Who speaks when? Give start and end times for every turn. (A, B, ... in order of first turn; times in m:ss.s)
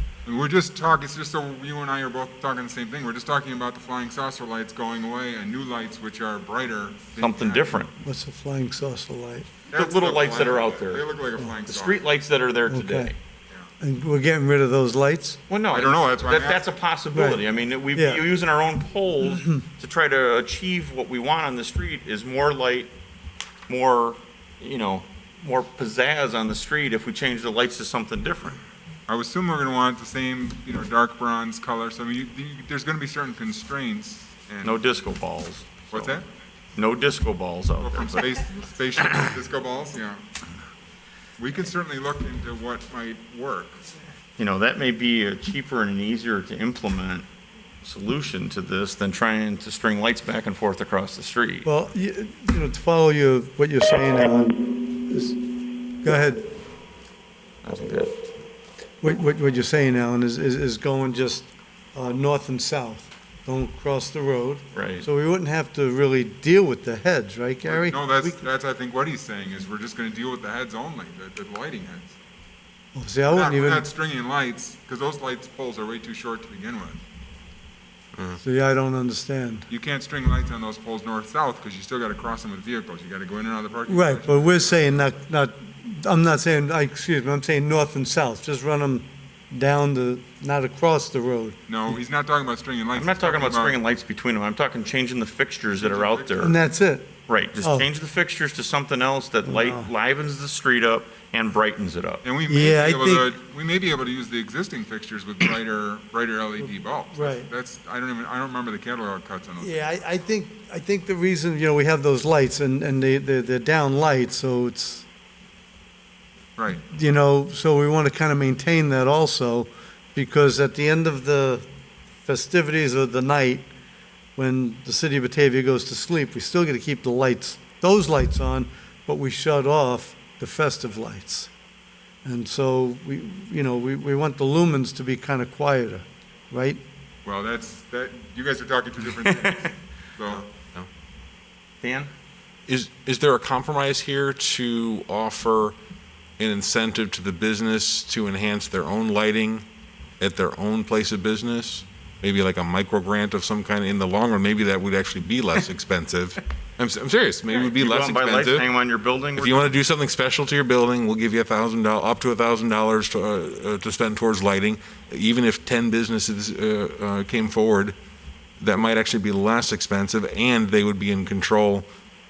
0:00.2-0:07.8 A
0:07.2-0:07.9 B
0:08.0-0:09.5 C
0:09.7-0:12.0 A
0:09.7-0:11.1 B
0:11.6-0:13.2 B
0:12.7-0:13.1 C
0:13.8-0:15.4 C
0:15.5-0:22.9 B
0:15.7-0:16.7 A
0:17.1-0:17.4 C
0:17.9-0:18.2 C
0:19.3-0:19.6 C
0:23.7-0:28.6 B
0:29.1-0:34.8 A
0:34.6-0:36.1 B
0:35.9-0:36.2 A
0:36.8-0:38.2 B
0:37.8-0:40.2 A
0:41.4-0:43.8 A
0:44.4-0:47.3 B
0:47.8-0:51.7 B
0:51.6-0:55.4 C
0:56.0-0:56.5 C
0:57.6-0:58.1 B
0:59.0-1:08.4 C
1:04.7-1:05.1 B
1:07.7-1:12.2 A
1:12.9-1:13.8 C
1:13.3-1:17.0 A
1:18.4-1:19.6 C
1:19.7-1:25.0 A
1:23.9-1:31.6 C
1:31.7-1:33.8 A
1:32.9-1:36.6 B
1:35.8-1:36.5 A
1:36.4-1:37.9 C
1:37.3-1:42.2 B
1:39.4-1:39.9 C
1:42.2-1:49.9 A
1:42.5-1:43.3 C
1:47.1-1:47.5 C
1:49.6-1:55.0 C
1:56.6-1:56.8 A
1:56.9-2:01.7 C
2:02.2-2:03.6 C
2:04.4-2:11.5 C
2:12.2-2:16.8 C
2:17.2-2:20.4 A
2:21.8-2:22.1 B
2:22.7-2:25.8 D
2:26.4-2:29.6 D
2:30.2-2:38.6 D
2:37.5-2:39.8 B
2:39.4-2:48.0 D
2:48.6-2:51.9 D